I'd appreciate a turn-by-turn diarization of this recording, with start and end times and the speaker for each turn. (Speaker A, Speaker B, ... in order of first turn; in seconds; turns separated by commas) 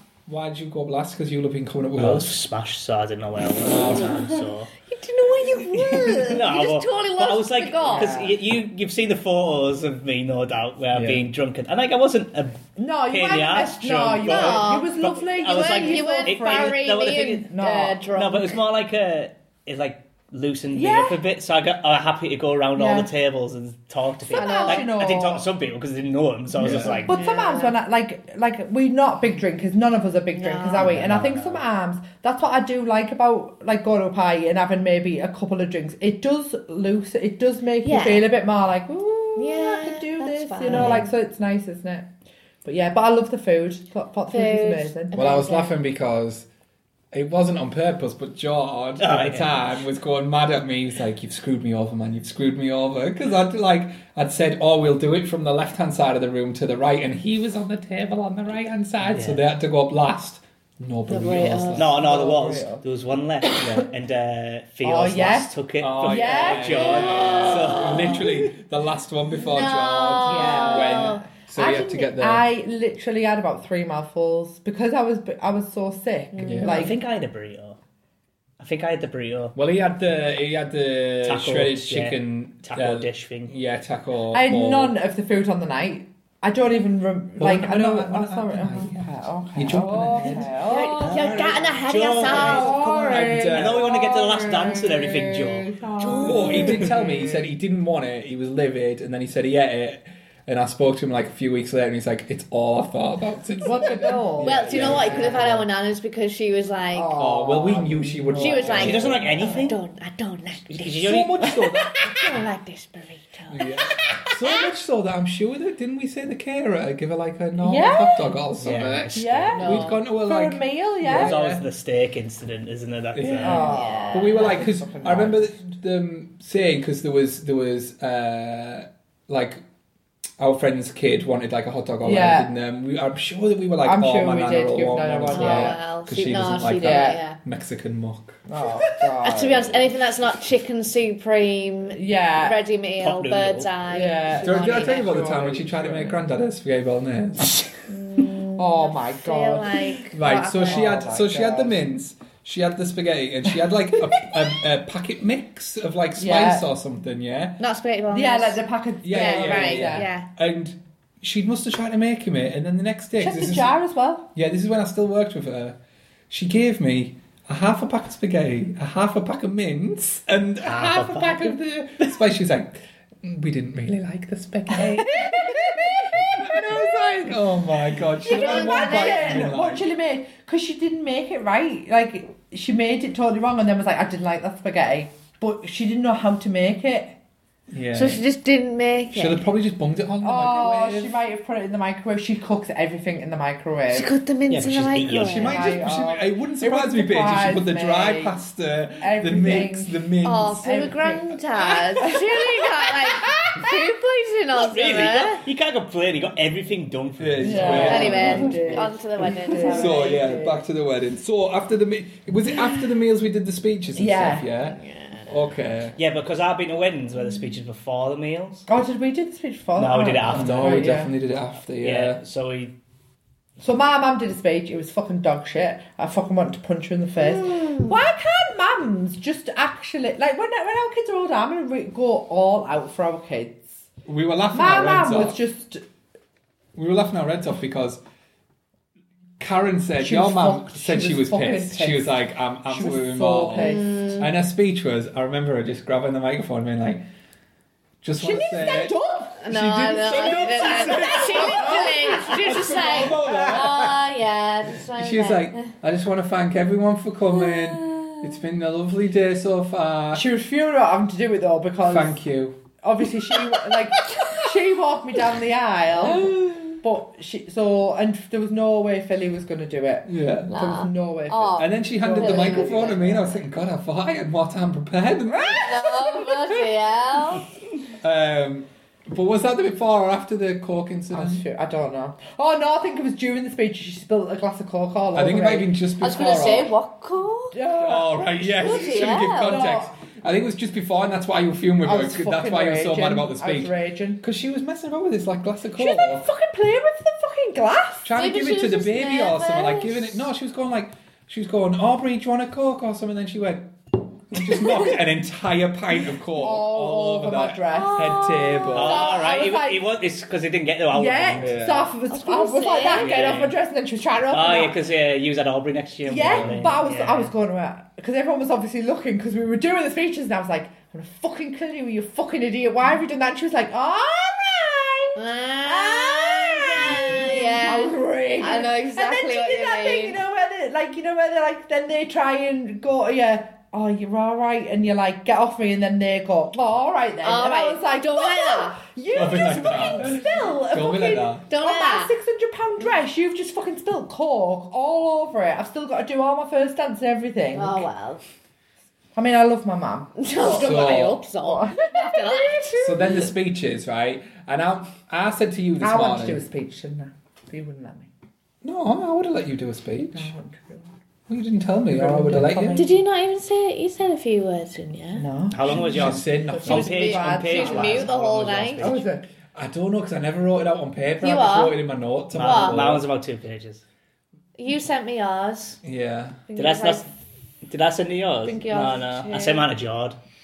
Speaker A: 0.3-2.4, Speaker B: 2.0-4.7, Speaker A: 3.6-4.4, Speaker C: 4.9-8.2, Speaker B: 6.1-17.5, Speaker D: 7.8-8.4, Speaker A: 10.9-11.2, Speaker D: 12.8-18.1, Speaker C: 14.2-14.9, Speaker C: 15.4-18.6, Speaker B: 18.1-27.2, Speaker D: 20.7-21.2, Speaker D: 22.8-23.1, Speaker D: 24.3-25.5, Speaker C: 24.3-24.9, Speaker A: 26.6-27.1, Speaker D: 26.7-42.1, Speaker C: 27.1-27.8, Speaker C: 30.3-30.9, Speaker B: 30.8-31.6, Speaker C: 37.8-38.3, Speaker C: 39.4-41.0, Speaker B: 40.7-41.1, Speaker D: 42.6-45.7, Speaker C: 44.3-45.7, Speaker A: 45.1-46.5, Speaker A: 47.1-62.0, Speaker B: 49.0-49.6, Speaker B: 59.1-59.4, Speaker C: 61.1-61.9, Speaker B: 61.8-68.1, Speaker D: 61.8-62.8, Speaker A: 63.6-63.9, Speaker D: 64.8-67.8, Speaker A: 65.8-72.5, Speaker C: 66.7-68.2, Speaker C: 69.5-71.7, Speaker D: 70.2-77.0, Speaker C: 76.3-76.7, Speaker A: 76.4-76.9, Speaker B: 76.6-77.8, Speaker B: 78.6-79.5, Speaker A: 79.5-85.0, Speaker B: 81.2-83.5, Speaker D: 84.3-91.3, Speaker A: 87.4-93.9, Speaker B: 90.1-96.8, Speaker C: 90.7-92.8, Speaker D: 92.3-97.5, Speaker C: 96.0-96.7, Speaker A: 96.2-105.5, Speaker D: 103.6-105.5, Speaker C: 103.9-107.1, Speaker B: 104.7-105.6, Speaker D: 106.9-109.7, Speaker A: 107.2-109.3, Speaker C: 108.4-114.3, Speaker B: 108.7-109.8, Speaker B: 110.7-111.7, Speaker A: 111.1-112.0, Speaker D: 111.7-112.2, Speaker A: 113.5-121.7, Speaker D: 117.6-118.3, Speaker B: 118.6-119.6, Speaker D: 119.1-121.4, Speaker C: 119.5-120.0, Speaker B: 121.0-123.7, Speaker A: 123.2-129.6, Speaker D: 123.4-125.7, Speaker C: 123.5-124.7, Speaker A: 130.4-138.4, Speaker D: 132.0-132.5, Speaker D: 133.8-135.8, Speaker C: 135.3-137.4, Speaker D: 136.8-137.2, Speaker D: 138.5-139.9, Speaker C: 139.2-145.1, Speaker D: 141.9-142.6, Speaker B: 143.0-143.7, Speaker D: 143.9-146.3, Speaker A: 144.4-147.7, Speaker C: 147.9-151.0, Speaker D: 148.6-149.9, Speaker A: 150.1-157.6, Speaker D: 150.6-151.8, Speaker D: 156.2-156.6, Speaker C: 157.6-160.3, Speaker D: 158.1-160.1, Speaker A: 159.0-163.7, Speaker D: 163.2-164.3, Speaker A: 164.3-165.8, Speaker A: 166.3-179.9, Speaker B: 170.6-172.1, Speaker D: 174.7-176.8, Speaker D: 178.2-187.2, Speaker C: 178.2-179.5, Speaker A: 187.7-188.2, Speaker C: 187.9-189.4, Speaker A: 189.1-191.2, Speaker D: 190.2-194.1, Speaker C: 193.9-195.7, Speaker B: 194.5-195.6, Speaker A: 195.2-200.7, Speaker D: 195.5-198.4, Speaker D: 199.0-200.1, Speaker C: 200.2-205.4, Speaker D: 200.6-201.4, Speaker D: 201.9-203.8, Speaker B: 204.6-208.5, Speaker A: 207.2-208.8, Speaker D: 207.4-210.6, Speaker C: 207.8-210.4, Speaker A: 209.6-216.0, Speaker D: 214.0-214.5, Speaker C: 214.8-215.3, Speaker B: 216.0-218.7, Speaker D: 218.7-221.1, Speaker B: 219.8-220.8, Speaker A: 220.3-222.2, Speaker B: 221.8-222.8, Speaker D: 223.6-233.8, Speaker C: 227.2-228.0, Speaker A: 234.1-235.4, Speaker D: 234.5-235.8, Speaker A: 236.8-238.0, Speaker A: 239.4-247.1, Speaker D: 240.0-244.3, Speaker C: 243.6-244.3, Speaker A: 248.0-254.0, Speaker D: 248.2-249.5, Speaker C: 249.4-255.7, Speaker D: 250.1-253.6, Speaker A: 254.7-260.3, Speaker C: 257.5-258.1, Speaker D: 260.1-262.2, Speaker A: 261.8-262.6, Speaker D: 262.8-273.4, Speaker C: 266.2-266.7, Speaker A: 270.1-270.5, Speaker C: 270.5-273.2, Speaker A: 271.6-276.1, Speaker D: 275.3-276.2, Speaker C: 275.6-277.4, Speaker A: 278.0-281.4, Speaker D: 281.1-285.7, Speaker A: 285.1-286.7, Speaker C: 286.0-287.6, Speaker D: 287.5-289.9, Speaker A: 287.7-296.3, Speaker C: 288.6-289.7, Speaker D: 291.8-294.2, Speaker D: 295.8-298.1, Speaker A: 298.1-303.7, Speaker C: 298.2-300.2, Speaker A: 304.3-309.1, Speaker D: 306.4-309.9, Speaker C: 307.7-309.0, Speaker B: 308.7-311.6, Speaker D: 310.9-314.8, Speaker A: 311.4-311.9, Speaker C: 312.1-313.4, Speaker B: 312.8-313.6, Speaker B: 314.3-317.3, Speaker D: 316.1-347.9, Speaker A: 316.1-316.8, Speaker C: 325.1-330.2, Speaker C: 337.2-338.8, Speaker A: 339.1-341.4, Speaker C: 341.5-342.1, Speaker C: 347.5-348.2, Speaker D: 349.1-353.2, Speaker C: 350.2-353.1, Speaker A: 350.5-351.2, Speaker A: 352.8-356.4, Speaker D: 355.8-358.1, Speaker A: 358.6-360.3, Speaker D: 360.1-360.9, Speaker A: 361.3-362.9, Speaker D: 361.9-363.0, Speaker C: 362.7-365.3, Speaker D: 365.2-368.1, Speaker B: 365.5-369.1, Speaker A: 365.7-367.5, Speaker C: 366.6-369.0, Speaker D: 368.8-369.2, Speaker A: 369.5-373.0, Speaker C: 371.2-371.8, Speaker B: 372.3-373.8, Speaker C: 372.4-372.8, Speaker C: 374.6-375.8, Speaker A: 375.8-376.4, Speaker C: 376.5-377.1, Speaker B: 376.6-377.1, Speaker B: 377.6-380.2, Speaker C: 378.4-379.6